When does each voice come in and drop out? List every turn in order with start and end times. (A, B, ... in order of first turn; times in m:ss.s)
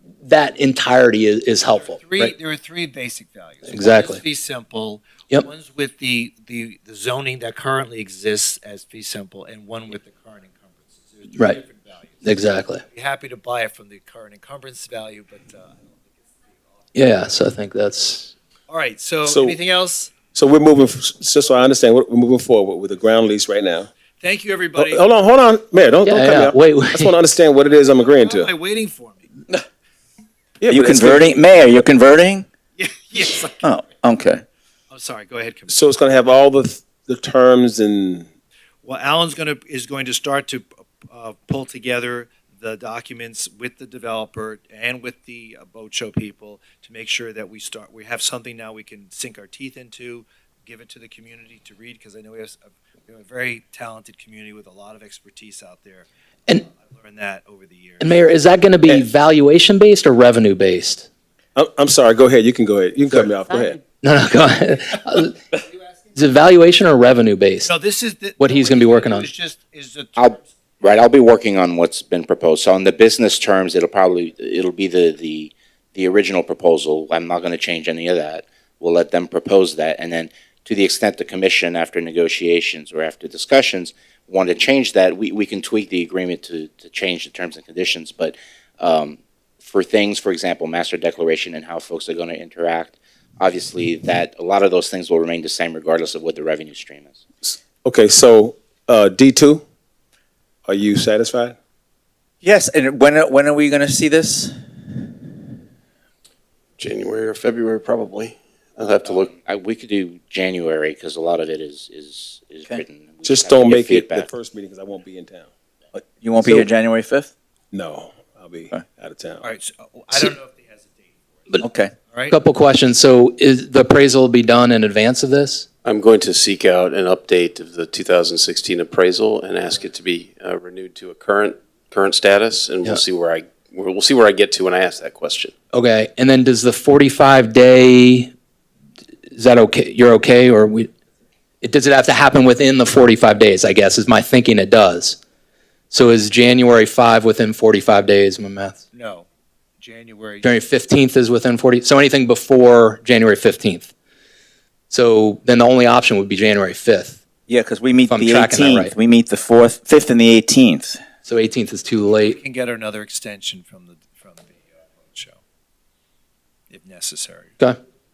0:00.2-0:02.3 A
0:01.8-0:16.2 B
0:03.7-0:04.2 A
0:12.2-0:12.8 A
0:16.9-0:18.3 A
0:18.7-0:20.1 B
0:19.3-0:19.6 C
0:20.3-0:23.9 C
0:24.2-0:25.0 B
0:24.8-0:28.5 C
0:26.0-0:27.1 A
0:27.8-0:29.2 B
0:30.6-0:31.4 C
0:30.7-0:32.5 D
0:32.8-0:33.7 B
0:33.6-0:34.4 D
0:34.9-0:35.8 B
0:35.7-0:38.3 C
0:38.8-0:58.3 B
0:58.0-1:01.1 A
1:01.6-1:03.8 C
1:04.0-1:05.4 A
1:06.1-1:07.7 A
1:07.6-1:10.5 B
1:08.4-1:09.3 A
1:10.2-1:37.2 E
1:37.4-1:39.6 C
1:40.6-1:41.6 C
1:42.4-1:44.5 D
1:46.8-1:49.3 F
1:49.0-1:54.3 E
1:53.2-1:55.5 C
1:55.9-1:57.3 D
1:56.4-1:56.7 C
1:57.7-1:59.4 C
1:59.4-2:01.6 B
2:01.6-2:01.9 D
2:02.1-2:02.4 B
2:02.3-2:05.6 A
2:05.8-2:15.5 F
2:15.7-2:18.3 A
2:19.3-2:20.9 A
2:21.6-2:25.2 A
2:25.9-2:28.8 A
2:28.9-2:29.2 B
2:29.8-2:30.5 B
2:30.4-2:33.9 A
2:34.9-2:37.2 A
2:37.5-2:41.0 D
2:38.1-2:38.9 A
2:41.2-2:42.4 A
2:42.2-2:45.4 B
2:46.7-2:47.6 B